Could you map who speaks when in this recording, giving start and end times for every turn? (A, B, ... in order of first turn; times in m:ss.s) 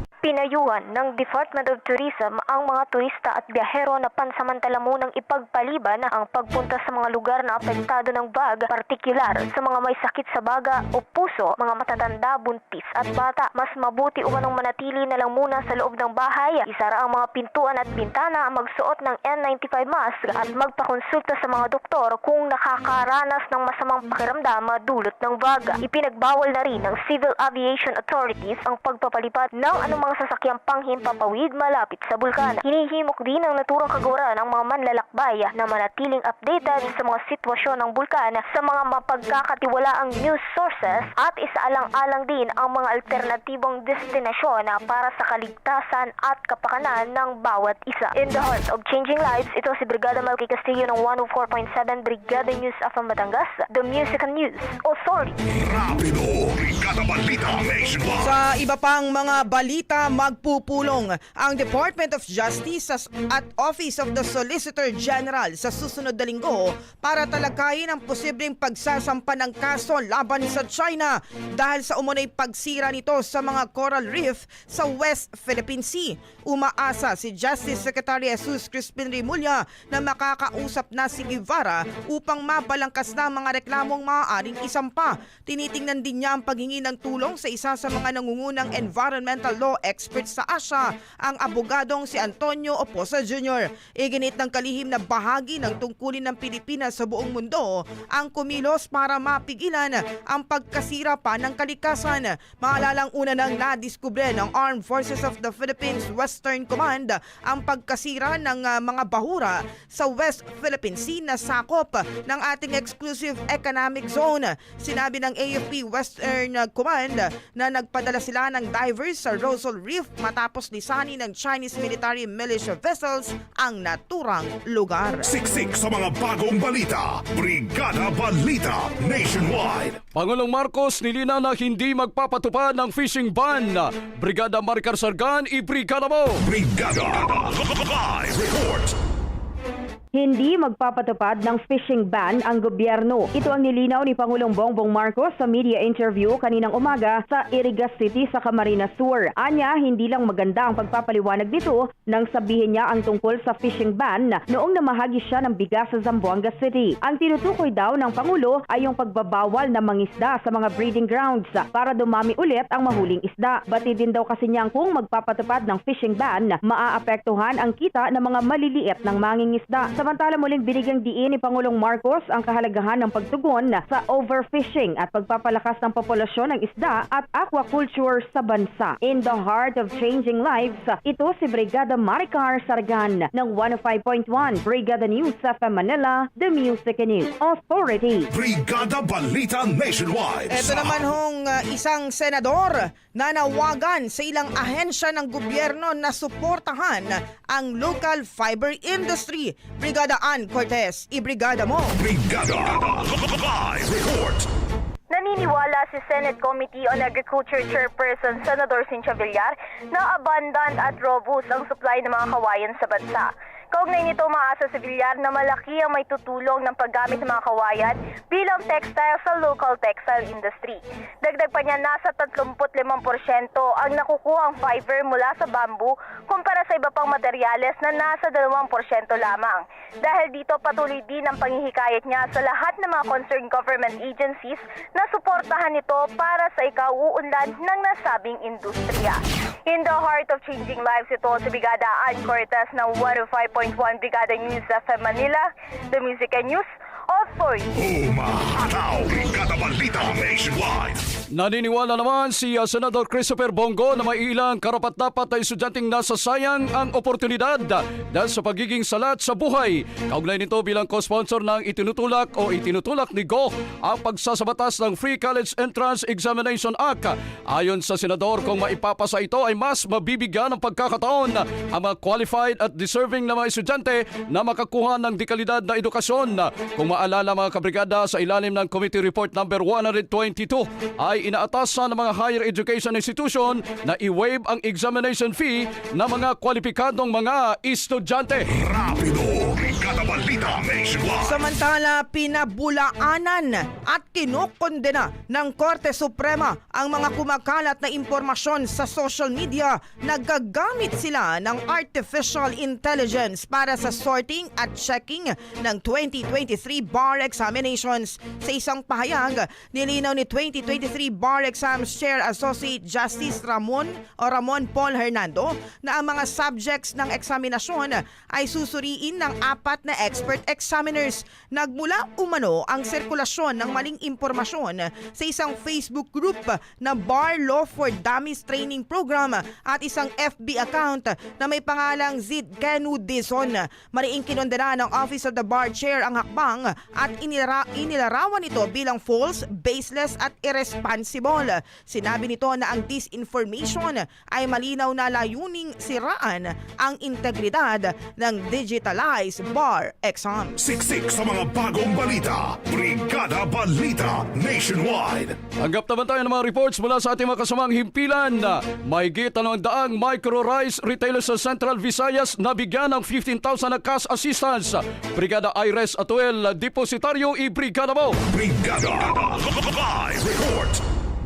0:00.2-0:55.4 A
0:55.6-0:58.3 B
0:58.2-2:05.3 C
2:05.2-2:10.0 B
2:10.1-2:16.4 D
2:16.4-2:19.0 B
2:20.1-3:08.3 E
3:08.3-3:11.1 B
3:10.5-3:21.9 C
3:22.0-3:24.5 B
3:25.1-4:07.7 F
4:07.8-4:11.0 B
4:11.3-4:48.5 D
4:48.5-4:51.4 B
4:51.2-5:50.7 C
5:50.6-5:55.4 B
5:55.6-6:08.2 D
6:08.3-6:10.8 B